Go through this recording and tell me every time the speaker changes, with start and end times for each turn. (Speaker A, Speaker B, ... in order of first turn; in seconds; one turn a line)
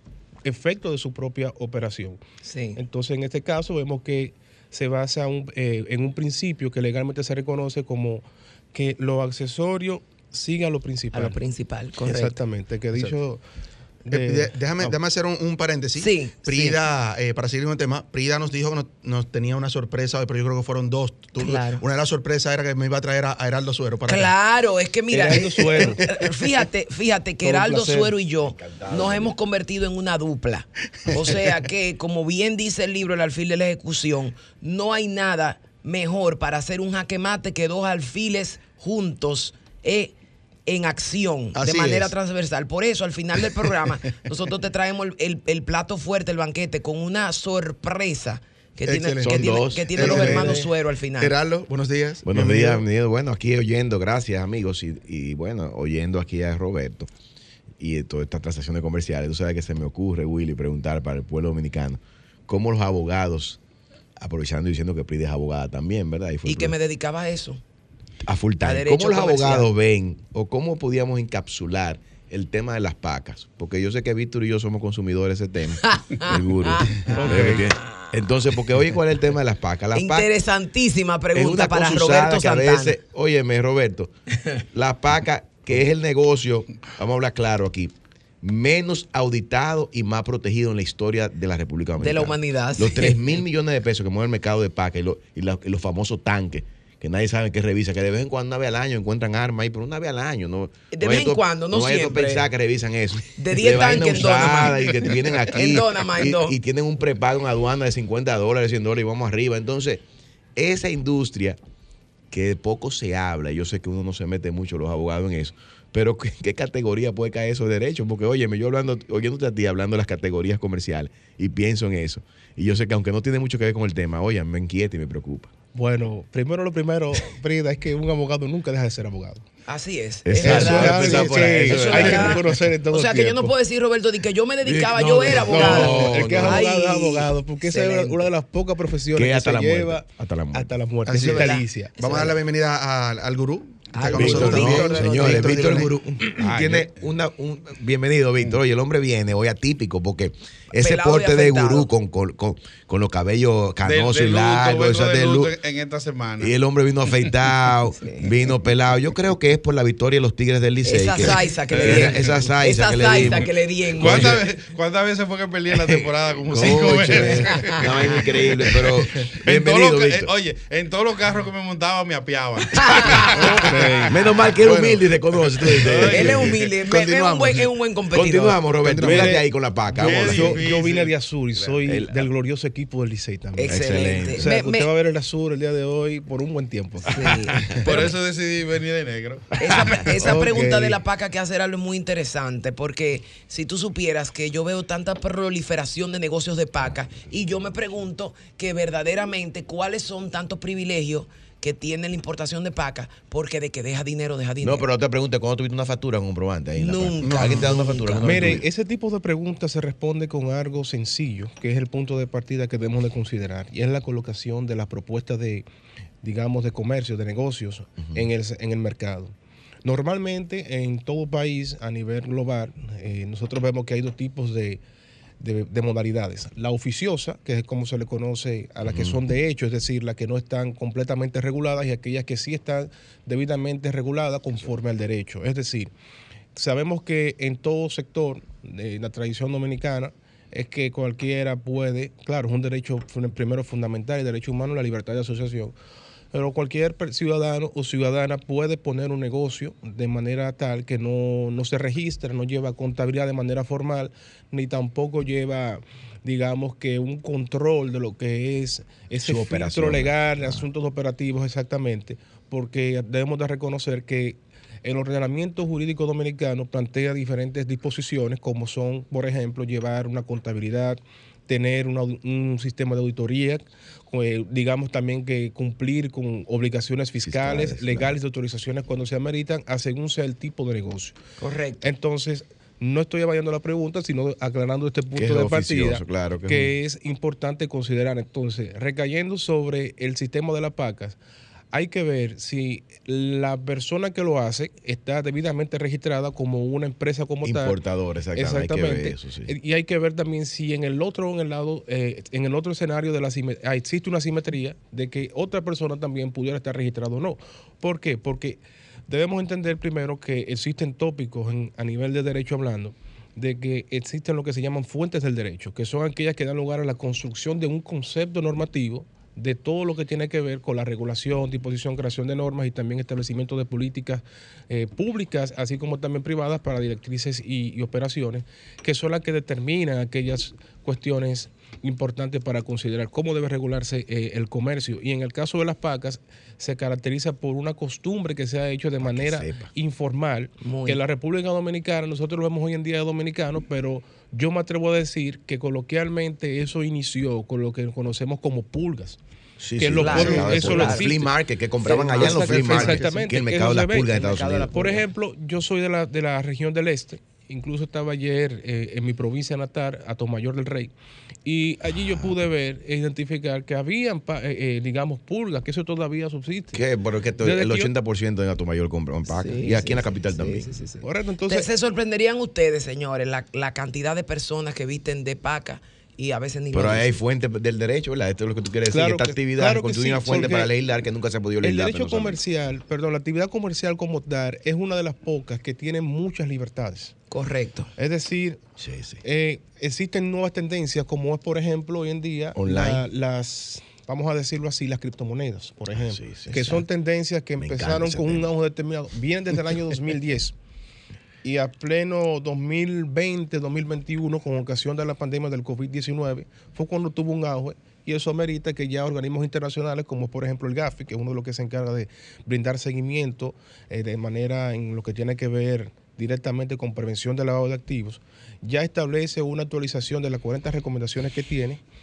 Speaker A: 0.4-2.2
Speaker B: 2.5-2.8
Speaker A: 2.8-11.4
Speaker B: 11.1-12.4
Speaker A: 12.0-13.4
Speaker A: 14.1-15.0
Speaker C: 14.1-24.3
Speaker B: 16.0-16.8
Speaker B: 21.4-21.8
Speaker B: 24.1-40.1
Speaker A: 25.1-26.2
Speaker A: 27.4-28.2
Speaker D: 28.4-29.4
Speaker B: 40.7-51.3
Speaker C: 41.5-42.1
Speaker C: 48.9-50.7
Speaker D: 49.2-50.5
Speaker C: 51.2-52.8
Speaker D: 52.2-57.1
Speaker D: 57.8-63.6
Speaker D: 64.2-66.7
Speaker B: 66.5-67.6
Speaker D: 68.2-80.3
Speaker B: 68.6-69.7
Speaker B: 75.8-78.1
Speaker A: 77.2-77.7
Speaker B: 79.9-83.0
Speaker D: 81.3-84.1
Speaker D: 84.7-110.0
Speaker B: 92.0-93.4
Speaker B: 100.9-102.5
Speaker B: 103.4-106.6
Speaker D: 110.6-111.6
Speaker D: 112.3-125.5
Speaker A: 125.7-129.4
Speaker B: 129.7-138.3
Speaker D: 130.3-132.6
Speaker A: 130.3-133.5
Speaker C: 130.5-131.4
Speaker D: 134.6-136.6
Speaker A: 135.0-142.0
Speaker D: 139.1-140.7
Speaker C: 141.1-145.9
Speaker B: 141.3-142.3
Speaker B: 143.9-145.9
Speaker D: 144.1-155.5
Speaker E: 146.4-146.9
Speaker B: 150.7-151.9
Speaker E: 153.8-156.5
Speaker D: 156.4-164.4
Speaker B: 158.0-158.2
Speaker B: 160.8-164.3
Speaker E: 161.7-162.5
Speaker E: 164.0-174.2
Speaker D: 165.7-170.3
Speaker B: 172.8-173.3
Speaker A: 173.4-174.1
Speaker D: 174.1-180.6
Speaker C: 174.7-175.0
Speaker E: 175.6-176.7
Speaker B: 176.1-178.6
Speaker A: 178.9-187.9
Speaker C: 179.0-179.3
Speaker E: 180.0-181.1
Speaker D: 181.8-182.3
Speaker B: 183.6-184.9
Speaker D: 183.7-184.4
Speaker B: 187.1-187.6
Speaker E: 187.7-190.1
Speaker B: 189.6-204.9
Speaker A: 190.2-191.0
Speaker D: 204.6-208.7
Speaker B: 206.8-208.6
Speaker C: 207.2-207.7
Speaker A: 208.2-215.7
Speaker A: 216.2-219.3
Speaker A: 219.8-224.8
Speaker A: 225.4-235.9
Speaker D: 228.9-229.2
Speaker A: 236.6-245.7
Speaker A: 246.3-281.2
Speaker D: 259.2-260.6
Speaker D: 277.2-278.1
Speaker B: 281.4-281.9
Speaker A: 281.8-291.2
Speaker D: 285.1-286.7
Speaker A: 291.7-297.8
Speaker D: 297.4-299.5
Speaker A: 298.4-349.2
Speaker D: 339.0-339.7
Speaker B: 340.6-341.0
Speaker D: 349.6-354.9
Speaker A: 349.8-351.3
Speaker B: 349.9-351.1
Speaker A: 351.8-360.9
Speaker C: 352.1-353.3
Speaker B: 354.1-355.1
Speaker A: 361.4-366.8
Speaker D: 366.7-370.7
Speaker A: 367.4-367.9
Speaker B: 369.3-377.2
Speaker A: 371.0-371.7
Speaker D: 376.7-382.4
Speaker A: 378.9-380.7
Speaker A: 381.6-387.1
Speaker B: 387.3-387.9
Speaker A: 388.0-388.6
Speaker D: 388.8-389.2
Speaker A: 389.2-400.6
Speaker D: 392.6-393.1
Speaker D: 395.9-396.8
Speaker D: 397.6-398.5
Speaker A: 401.4-421.8